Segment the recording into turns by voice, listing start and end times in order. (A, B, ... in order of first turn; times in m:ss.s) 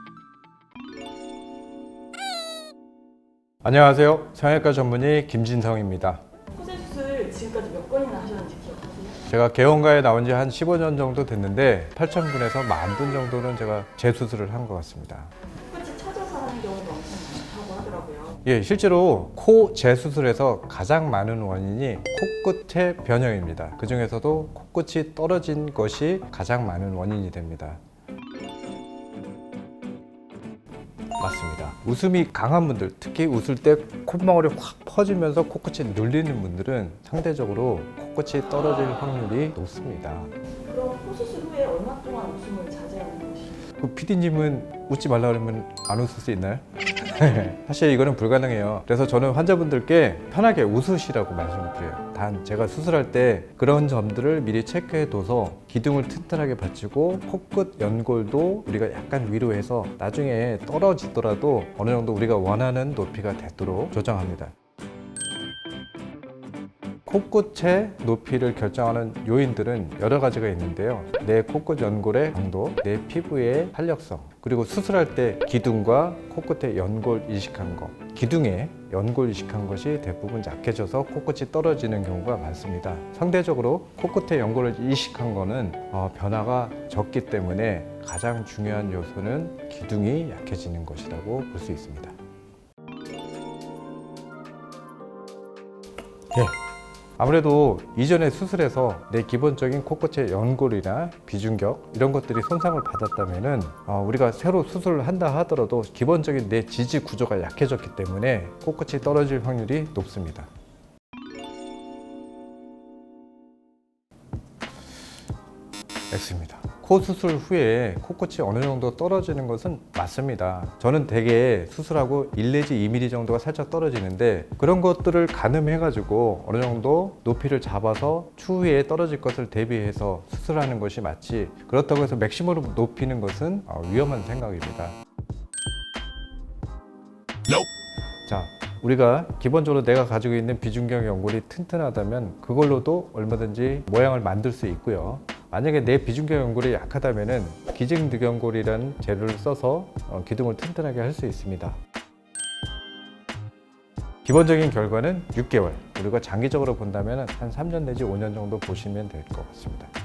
0:03.6-0:06.2 A
0:06.5-0:09.2 B
0:09.2-0:15.3 A
0:15.6-0:18.4 B
0:18.4-0:27.8 A
0:31.2-0:40.3 A
0:40.6-0:43.6 B
0:43.7-1:04.5 A
1:07.0-1:32.1 A
1:37.2-1:50.5 A
1:56.1-2:15.0 A
2:18.2-2:31.8 A
2:34.2-2:39.9 A